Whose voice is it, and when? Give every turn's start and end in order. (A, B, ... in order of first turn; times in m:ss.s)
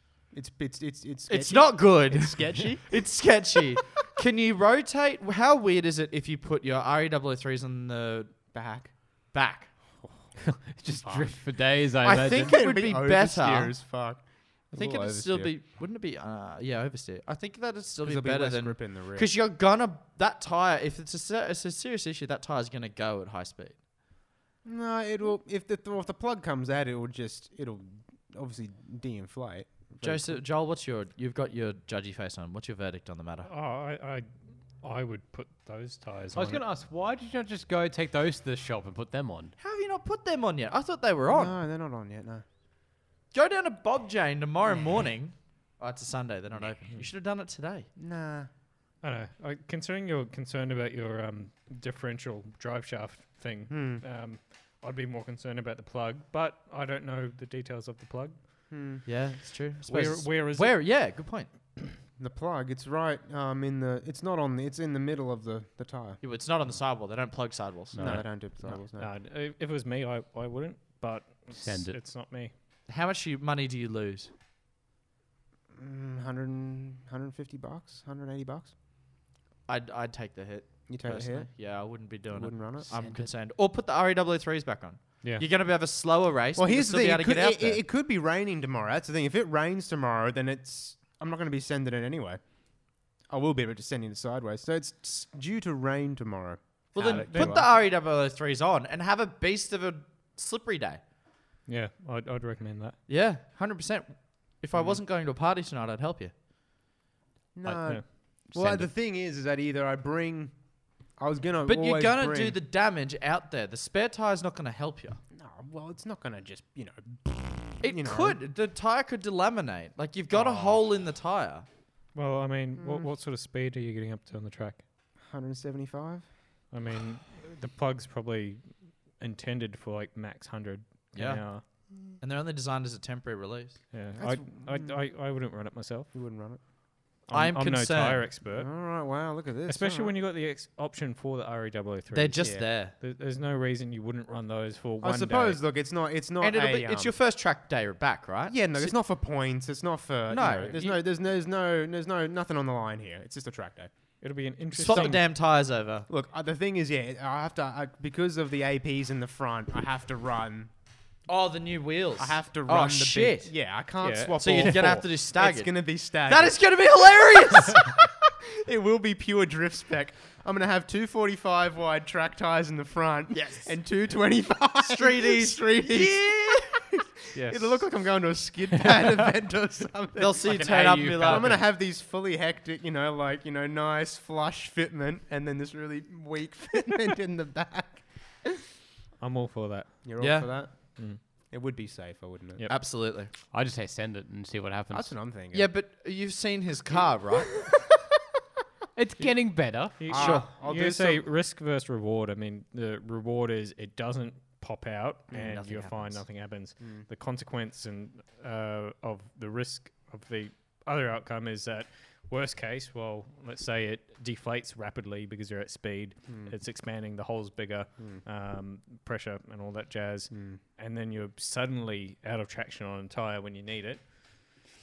0:00.3-0:02.9 A
0:01.3-0:08.4 B
0:08.5-0:08.9 A
0:09.3-0:09.7 B
0:10.5-0:12.6 C
0:11.0-0:11.3 A
0:12.0-0:13.8 B
0:12.2-0:15.5 A
0:14.7-0:23.8 B
0:18.0-0:19.3 A
0:24.6-0:30.4 A
0:30.0-0:33.5 B
0:33.5-0:34.3 D
0:34.8-0:36.6 D
0:36.4-0:39.6 C
0:39.6-0:41.6 B
0:41.3-0:42.4 A
0:43.3-0:47.9 B
0:48.0-0:48.5 A
0:49.0-0:58.4 D
0:53.7-0:54.0 A
0:58.7-0:59.0 A
0:59.0-1:01.5 B
0:59.9-1:00.9 D
1:02.2-1:06.2 A
1:06.2-1:08.0 B
1:07.9-1:08.2 C
1:08.0-1:09.1 A
1:09.0-1:12.5 D
1:11.6-1:12.0 C
1:12.9-1:14.3 B
1:15.8-1:18.7 A
1:19.7-1:27.8 B
1:20.9-1:22.9 A
1:22.9-1:23.3 C
1:26.6-1:37.7 A
1:36.9-1:41.0 B
1:37.0-1:37.6 D
1:41.7-1:43.0 D
1:43.1-1:46.3 B
1:44.8-1:45.0 A
1:47.6-1:50.6 A
1:47.6-1:48.9 D
1:51.2-1:52.6 A
1:51.6-1:55.2 B
1:55.3-1:58.4 A
1:57.8-2:01.7 B
2:00.3-2:00.8 A
2:02.2-2:04.8 D
2:02.8-2:03.1 A
2:05.2-2:06.2 A
2:06.7-2:11.6 D
2:11.1-2:11.5 B
2:12.2-2:13.8 B
2:13.9-2:16.1 D
2:14.2-2:15.0 A
2:16.1-2:16.6 A
2:17.3-2:18.7 D
2:17.3-2:18.3 B
2:18.5-2:20.1 A
2:19.7-2:25.6 D
2:22.1-2:22.9 B
2:25.0-2:27.2 A
2:26.4-2:28.9 B
2:28.5-2:33.9 A
2:30.3-2:30.9 B
2:34.2-2:35.2 D
2:34.8-2:36.1 B
2:34.8-2:35.2 A
2:36.1-2:40.7 A
2:41.3-2:43.5 B
2:42.2-2:46.6 A
2:44.0-2:44.7 D
2:44.4-2:47.9 B
2:47.8-3:00.6 A
2:53.3-2:53.7 B
2:54.8-2:56.9 B
2:57.3-2:57.8 D
2:58.8-2:59.2 C
3:00.2-3:01.6 B
3:00.4-3:01.6 C
3:01.2-3:08.1 A
3:09.2-3:10.2 D
3:10.0-3:11.0 A
3:10.2-3:10.5 B
3:11.5-3:12.6 A
3:12.7-3:13.3 B
3:13.5-3:15.1 C
3:14.9-3:15.7 A
3:15.5-3:17.5 B
3:17.5-3:17.8 A
3:19.0-3:20.0 C
3:20.0-3:44.0 D
3:20.1-3:21.2 A
3:20.1-3:20.5 B
3:25.3-3:26.2 B
3:26.8-3:27.1 A
3:36.3-3:36.6 A
3:40.3-3:40.6 A